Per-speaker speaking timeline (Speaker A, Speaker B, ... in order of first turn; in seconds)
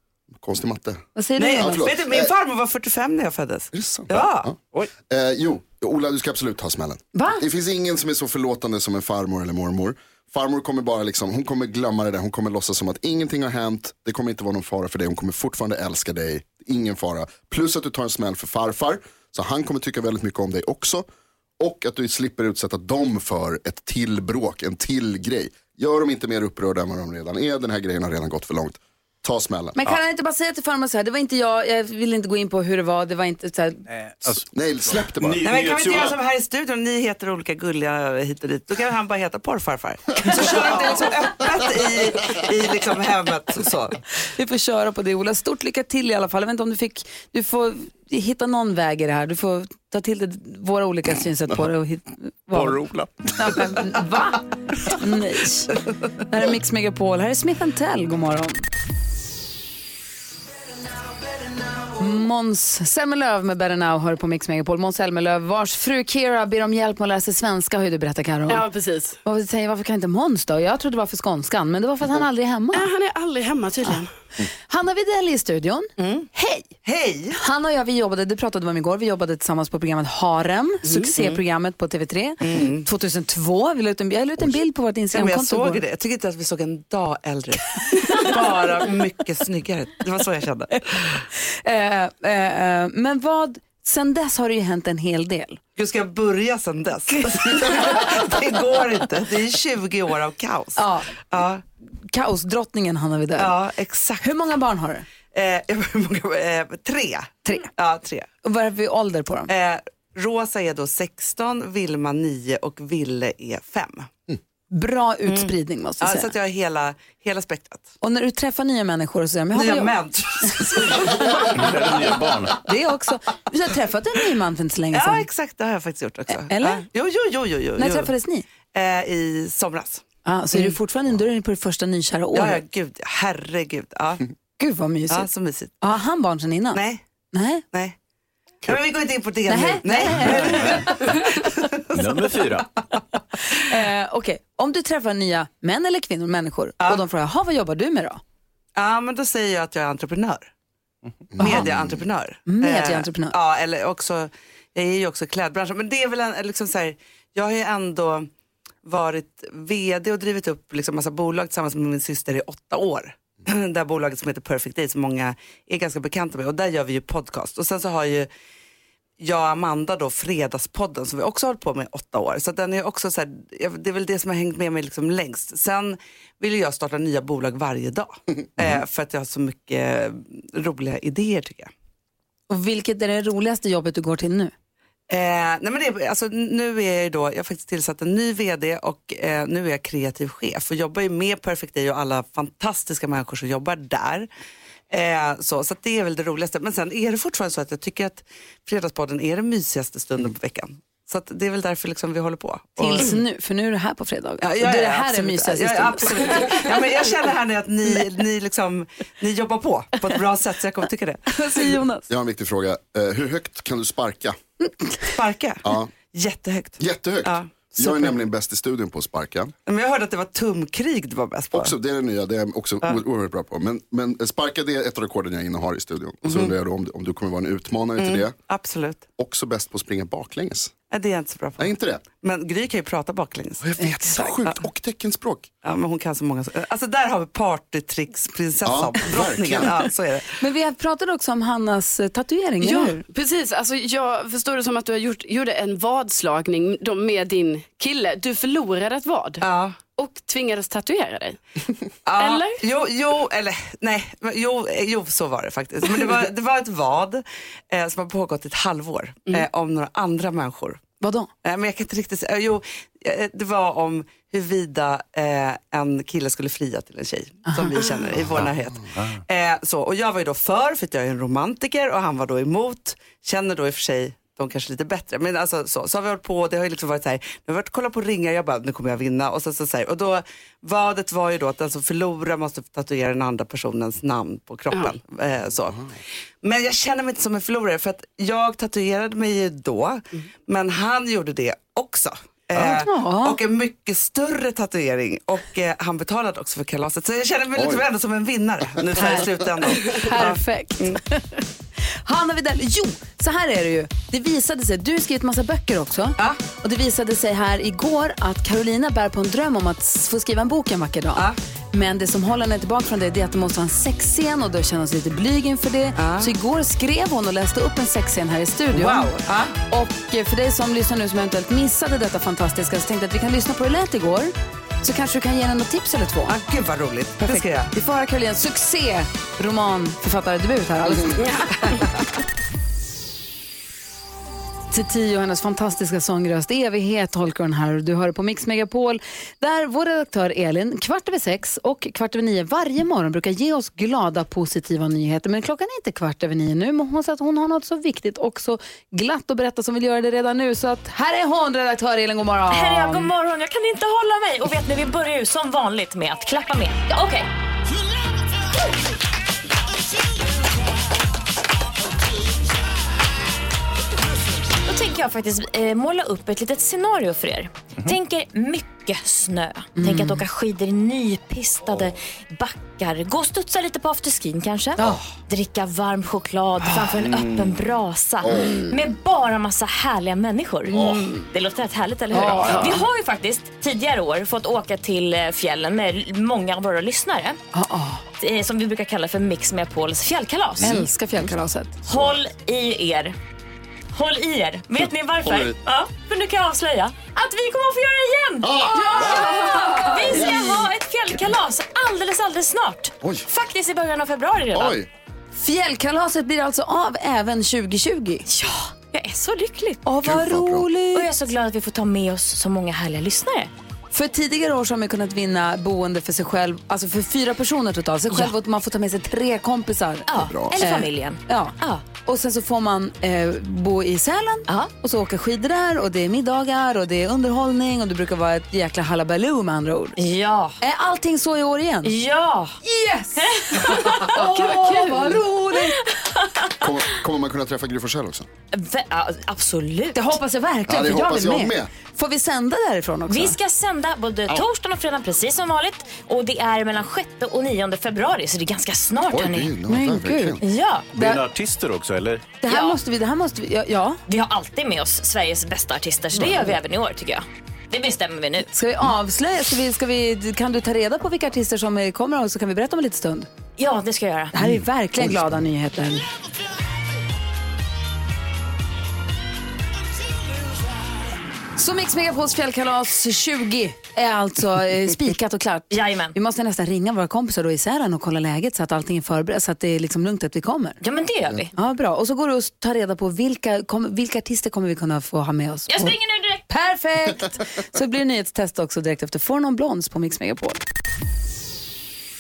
Speaker A: 0.3-1.1, 1.6-2.3, 3.7-21.1, 21.6-29.8, 34.5-35.5, 151.3-152.0, 212.1-214.4, 215.6-215.9, 216.8-219.5, 221.5-228.3, 229.2-230.7, 231.6-232.0, 233.6-235.5, 238.7-239.8, 297.6-297.8, 378.2-378.6, 380.7-381.1, 391.9-392.2, 395.2-395.6, 398.4-399.1, 400.1-400.5, 403.0-403.3, 404.5-404.9, 410.0-410.7, 420.2-420.6, 436.6-438.3, 440.7-441.7, 449.1-450.4
Speaker B: 1.2-1.9, 7.1-7.4, 29.8-33.8, 44.2-58.6, 62.0-68.6, 69.2-72.9, 74.7-76.8, 77.4-85.8, 87.8-88.3, 91.3-95.6, 97.5-97.9, 100.8-101.1, 102.1-103.5, 104.2-105.1, 108.4-109.5, 114.7-116.3, 118.0-119.9, 122.7-125.3, 126.3-126.8, 127.8-128.4, 130.3-132.6, 134.6-135.3, 135.8-136.8, 137.3-137.7, 139.5-141.5, 143.5-148.2, 152.5-153.3, 182.5-184.5, 202.8-206.7, 211.3-212.1, 217.8-218.1, 240.4-243.0, 261.0-261.3, 292.6-293.4, 299.0-301.4, 302.1-326.4, 327.2-331.9, 334.7-353.1, 369.8-370.2, 378.3-378.8, 380.7-381.3, 382.1-382.8, 387.5-388.0, 390.6-391.8, 398.9-400.5, 405.4-408.2, 409.8-411.1, 413.9-430.0, 430.6-431.9, 432.6-435.9, 439.9-443.4, 449.7-450.4, 452.4-454.0, 456.1-456.6, 458.5-463.3, 464.3-466.1, 471.6-480.8, 481.6-486.0, 486.5-490.6
Speaker C: 1.4-4.9, 35.4-44.0, 76.0-76.3, 76.8-77.4, 82.4-82.9, 85.1-91.2, 95.8-101.6, 103.4-104.3, 105.3-108.3, 109.5-114.1, 115.3-117.9, 119.5-122.5, 124.9-128.1, 128.7-130.8, 132.3-134.2, 135.1-135.8, 136.7-137.0, 138.7-142.2, 148.8-150.5, 151.4-158.3, 158.8-168.3, 169.2-181.7, 185.1-194.3, 194.9-203.2, 204.4-211.8, 215.1-217.5, 219.7-221.7, 226.2-226.5, 228.0-229.1, 230.9-234.6, 235.6-240.4, 249.4-249.8, 252.1-260.8, 261.4-301.0, 316.0-316.3, 318.7-319.5, 326.3-327.7
Speaker D: 34.0-36.2, 52.5-53.6, 121.5-122.6, 140.2-140.9, 141.9-142.7, 450.9-452.2
Speaker E: 68.5-69.2, 72.7-74.1, 80.8-81.1, 242.6-249.4, 250.0-251.4, 252.2-252.6, 399.0-399.3
Speaker F: 352.5-357.3, 364.7-387.4, 388.2-390.9, 391.9-393.1, 393.9-404.8, 408.3-409.9, 410.9-413.5, 418.1-418.4, 420.1-421.9, 430.0-430.6, 431.8-432.6, 433.2-436.8, 438.5-440.2, 443.1-449.6, 450.4-450.9, 452.4-452.8, 454.1-458.5, 463.6-464.4, 475.7-476.2, 480.8-481.5, 485.7-486.4